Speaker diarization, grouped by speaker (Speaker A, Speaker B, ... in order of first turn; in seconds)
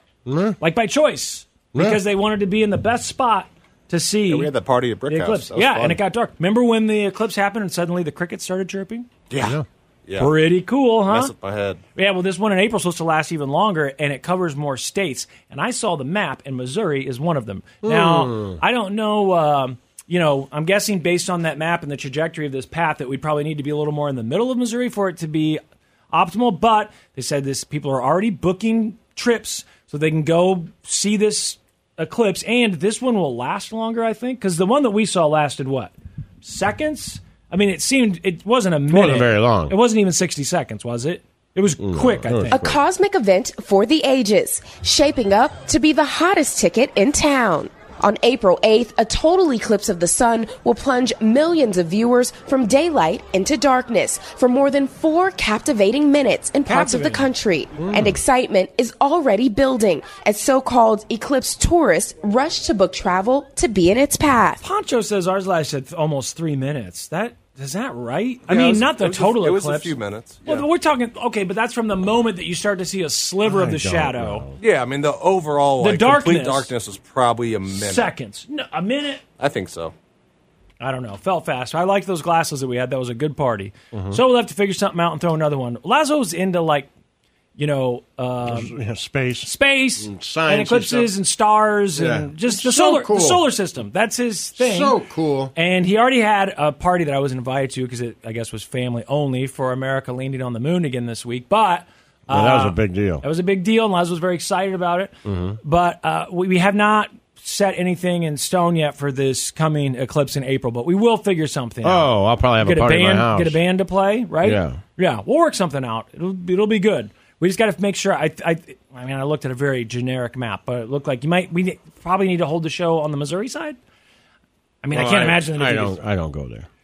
Speaker A: 0.3-0.6, 1.7-2.0, 9.4-9.7, 17.8-18.6, 38.9-39.7, 41.8-42.8, 57.8-58.2, 73.5-74.6, 83.9-84.2, 88.5-91.1, 92.0-93.4, 94.6-95.5, 102.3-103.2, 105.2-105.6, 111.8-113.6, 114.4-114.8, 124.9-126.7
Speaker B: 0.6-4.5, 5.1-9.1, 10.2-11.3, 11.9-25.6, 26.1-42.7, 56.7-57.3, 64.6-69.9, 70.5-74.5, 75.8-76.7, 77.7-79.2, 80.8-86.9, 87.6-88.7, 89.4-95.0, 95.5-112.1, 112.6-123.8, 124.8-126.0
Speaker C: 4.3-6.0, 9.3-10.4, 11.1-11.8, 68.5-70.7, 74.6-78.1, 79.4-79.9
Speaker D: 42.5-64.6